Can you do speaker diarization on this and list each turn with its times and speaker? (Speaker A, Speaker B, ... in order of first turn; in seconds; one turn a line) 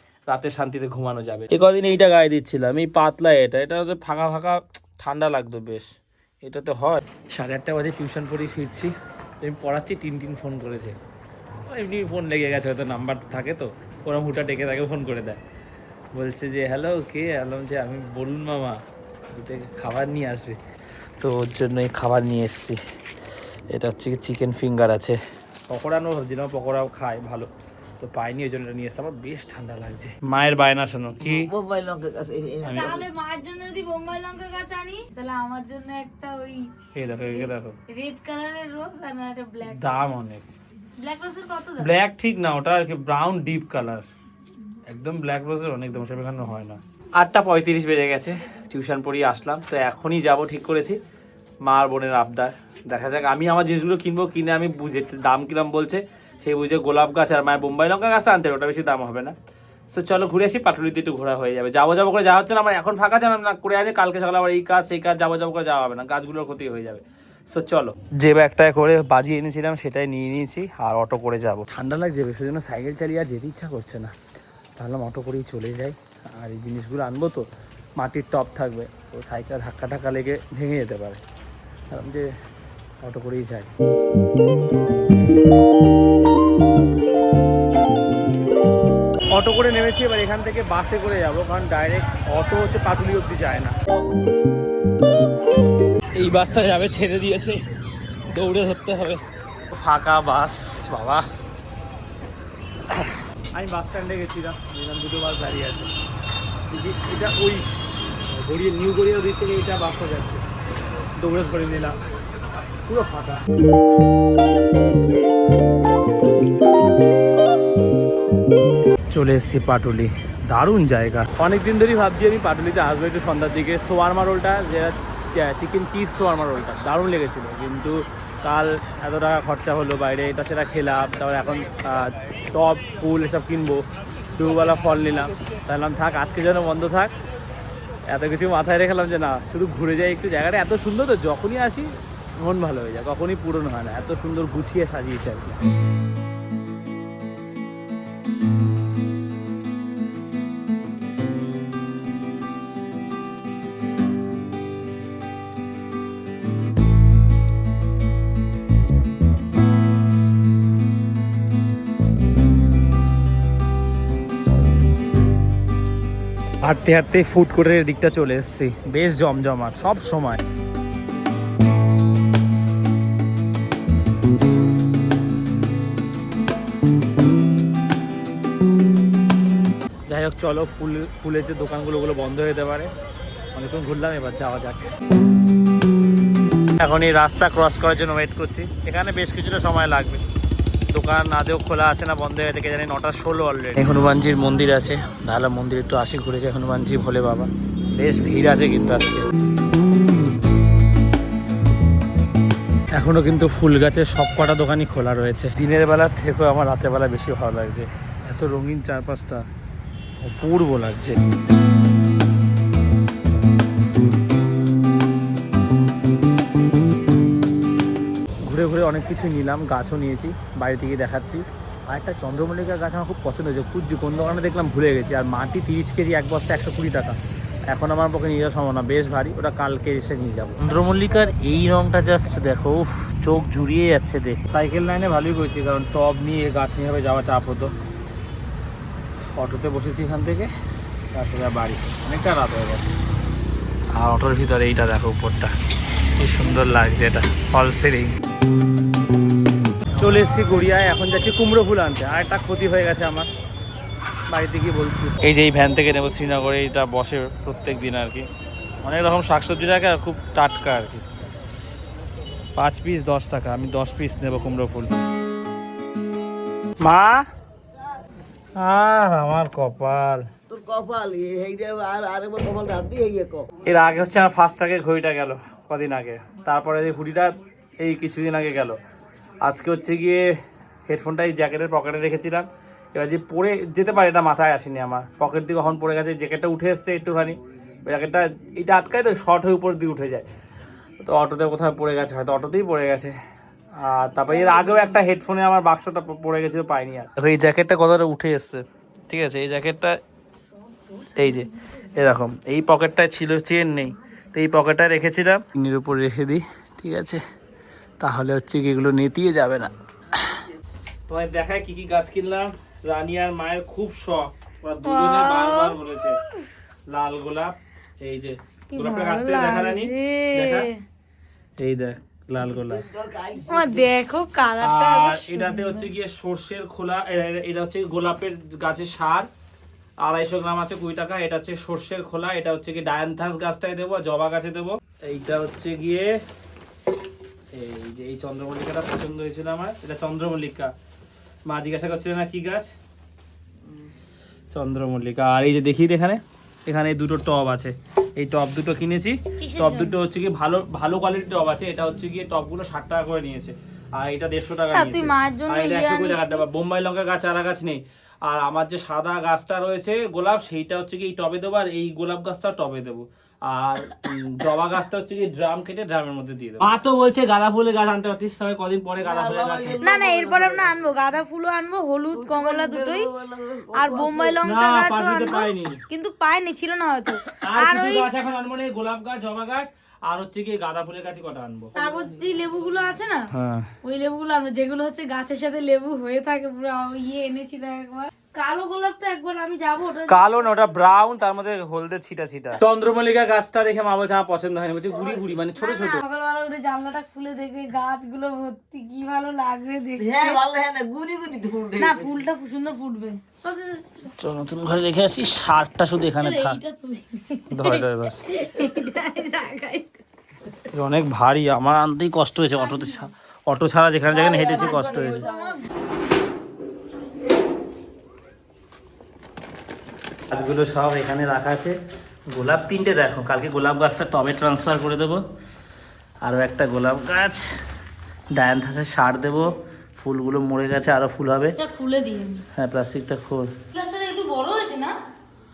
Speaker A: 0.3-5.9
Speaker A: 6.4-11.0
Speaker A: 11.7-15.4
Speaker A: 16.1-20.6
Speaker A: 21.2-22.8
Speaker A: 23.7-27.5
Speaker A: 28.0-31.5
Speaker B: 31.2-33.1
Speaker A: 32.6-33.0
Speaker C: 32.7-40.1
Speaker A: 37.0-37.8
Speaker A: 39.6-40.5
Speaker C: 41.0-41.9
Speaker A: 41.8-44.1
Speaker A: 44.9-51.0
Speaker A: 51.6-59.4
Speaker A: 59.9-74.1
Speaker A: 74.8-77.5
Speaker A: 78.0-81.2
Speaker A: 81.9-82.3
Speaker A: 83.0-83.7
Speaker A: 89.3-93.8
Speaker A: 96.2-97.6
Speaker A: 98.3-101.3
Speaker A: 102.9-106.0
Speaker A: 106.7-107.7
Speaker A: 108.3-110.5
Speaker A: 111.2-112.0
Speaker A: 112.9-113.4
Speaker A: 119.1-137.1
Speaker A: 138.1-145.6
Speaker A: 166.6-170.4
Speaker A: 180.1-182.9
Speaker A: 183.5-184.8
Speaker A: 186.8-190.2
Speaker A: 190.9-199.3
Speaker A: 202.9-209.4
Speaker A: 210.2-211.2
Speaker A: 218.4-237.7
Speaker A: 239.3-240.5
Speaker A: 241.1-242.9
Speaker A: 243.9-245.5
Speaker A: 246.2-248.2
Speaker A: 250.0-253.3
Speaker A: 254.3-258.3
Speaker A: 258.8-261.0
Speaker A: 262.6-264.9
Speaker A: 266.8-267.2
Speaker A: 268.6-270.3
Speaker B: 270.5-273.5
Speaker A: 273.7-278.8
Speaker A: 279.4-280.3
Speaker A: 280.9-290.3
Speaker A: 291.0-293.2
Speaker A: 293.8-300.0
Speaker A: 301.1-307.2
Speaker A: 308.0-310.4
Speaker A: 311.1-316.2
Speaker C: 314.9-315.8
Speaker A: 316.9-320.7
Speaker C: 318.7-320.8
Speaker A: 321.6-322.8
Speaker B: 322.6-323.9
Speaker C: 323.5-325.9
Speaker A: 324.6-329.3
Speaker A: 330.0-336.2
Speaker A: 337.5-340.7
Speaker A: 341.5-342.7
Speaker A: 344.5-369.8
Speaker C: 349.4-350.0
Speaker C: 354.7-356.5
Speaker B: 369.0-370.8
Speaker C: 369.8-373.1
Speaker B: 372.1-374.4
Speaker C: 373.8-378.1
Speaker A: 374.4-375.8
Speaker A: 377.4-381.7
Speaker C: 381.8-383.3
Speaker B: 381.8-382.7
Speaker A: 383.3-383.7
Speaker C: 383.8-390.9
Speaker A: 390.0-396.0
Speaker C: 395.6-400.4
Speaker B: 400.0-402.2
Speaker C: 401.8-404.1
Speaker A: 404.1-406.6
Speaker C: 406.2-410.0
Speaker A: 407.5-408.3
Speaker A: 410.6-415.3
Speaker C: 412.6-413.1
Speaker C: 414.1-415.6
Speaker A: 420.3-421.7
Speaker A: 422.3-425.2
Speaker A: 426.2-427.5
Speaker A: 428.3-431.6
Speaker C: 431.6-432.5
Speaker A: 432.5-433.5
Speaker C: 433.7-435.0